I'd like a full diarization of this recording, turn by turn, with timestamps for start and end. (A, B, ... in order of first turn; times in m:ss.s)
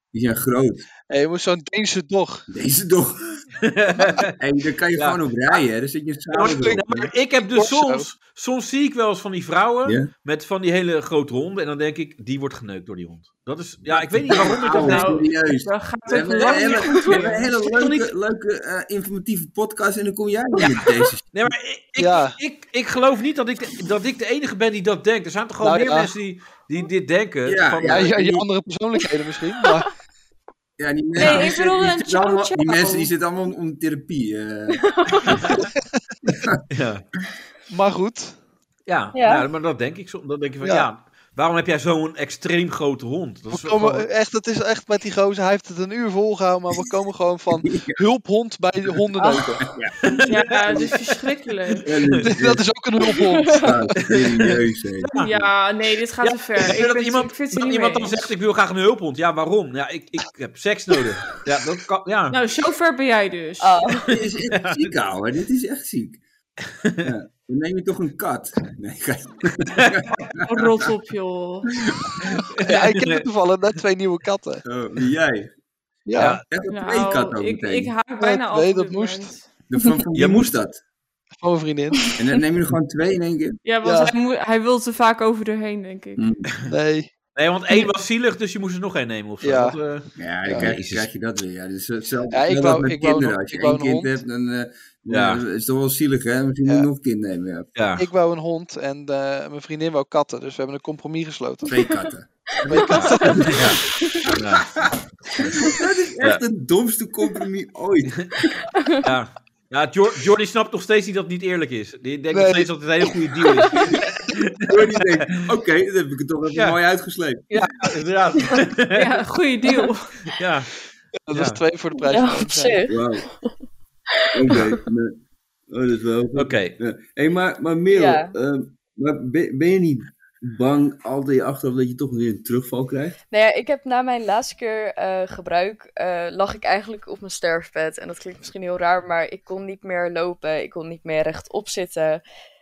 0:00.1-0:00.9 A
0:01.1-0:02.5 B
0:02.5-0:03.5 A
0:03.6-0:04.3 C
0:04.4-0:07.1 A
0:05.0-0:05.2 C
0:06.3-0:15.2 C
0:07.4-0:08.1 B
0:09.8-0:10.1 A
0:13.9-0:21.5 A
0:14.6-0:17.5 D
0:17.1-0:18.1 C
0:21.3-0:28.1 C
0:22.0-0:22.4 B
0:25.6-0:26.1 B
0:27.4-0:28.5 A
0:27.8-0:29.9 B
0:30.8-0:35.6 A
0:31.2-0:33.1 D
0:34.8-0:35.5 E
0:35.3-0:35.6 C
0:36.3-0:36.6 A
0:36.7-0:37.0 C
0:37.7-0:38.4 B
0:38.9-0:44.1 C
0:39.1-0:39.5 E
0:40.6-0:40.9 B
0:43.5-0:49.7 B
0:47.5-0:48.0 A
0:49.2-0:49.6 E
0:49.6-0:51.0 A
0:50.0-0:51.0 C
0:50.3-0:51.9 D
0:51.8-0:52.7 A
0:52.0-0:52.3 C
0:52.2-0:54.0 B
0:53.1-0:53.7 E
0:53.6-0:55.4 A
0:54.0-0:55.5 C
0:55.2-0:58.2 D
0:56.2-1:02.4 C
1:02.3-1:03.8 D
1:03.6-1:04.1 E
1:04.1-1:06.2 A
1:04.5-1:04.9 C
1:06.7-1:07.1 C
1:07.0-1:10.9 A
1:09.8-1:10.1 C
1:10.4-1:11.7 D
1:11.7-1:12.3 A
1:12.2-1:13.3 C
1:12.5-1:14.6 B
1:14.6-1:15.5 A
1:16.1-1:16.4 B
1:16.2-1:16.4 C
1:16.5-1:18.0 A
1:16.7-1:19.4 D
1:18.2-1:19.3 B
1:19.7-1:20.8 A
1:20.1-1:20.5 C
1:21.4-1:22.2 B
1:22.2-1:23.6 A
1:23.6-1:26.2 D
1:23.8-1:24.1 B
1:26.2-1:26.6 A
1:26.7-1:27.1 B
1:27.4-1:31.1 C
1:29.4-1:29.8 B
1:30.2-1:37.8 A
1:32.3-1:34.2 B
1:35.1-1:35.4 C
1:37.8-1:38.1 C
1:38.0-1:41.9 B
1:41.7-1:48.5 A
1:42.6-1:43.8 B
1:42.7-1:43.4 E
1:42.9-1:43.8 C
1:44.4-1:44.7 C
1:48.7-1:49.0 E
1:49.0-1:55.4 C
1:52.3-1:52.7 B
1:54.7-1:57.5 A
1:57.5-1:59.2 C
1:58.9-2:00.2 D
2:00.3-2:00.7 C
2:01.2-2:02.8 B
2:01.3-2:01.6 C
2:02.0-2:03.6 E
2:02.9-2:03.3 A
2:04.1-2:04.8 E
2:04.3-2:13.2 A
2:06.3-2:06.8 C
2:07.9-2:08.4 E
2:13.3-2:22.2 E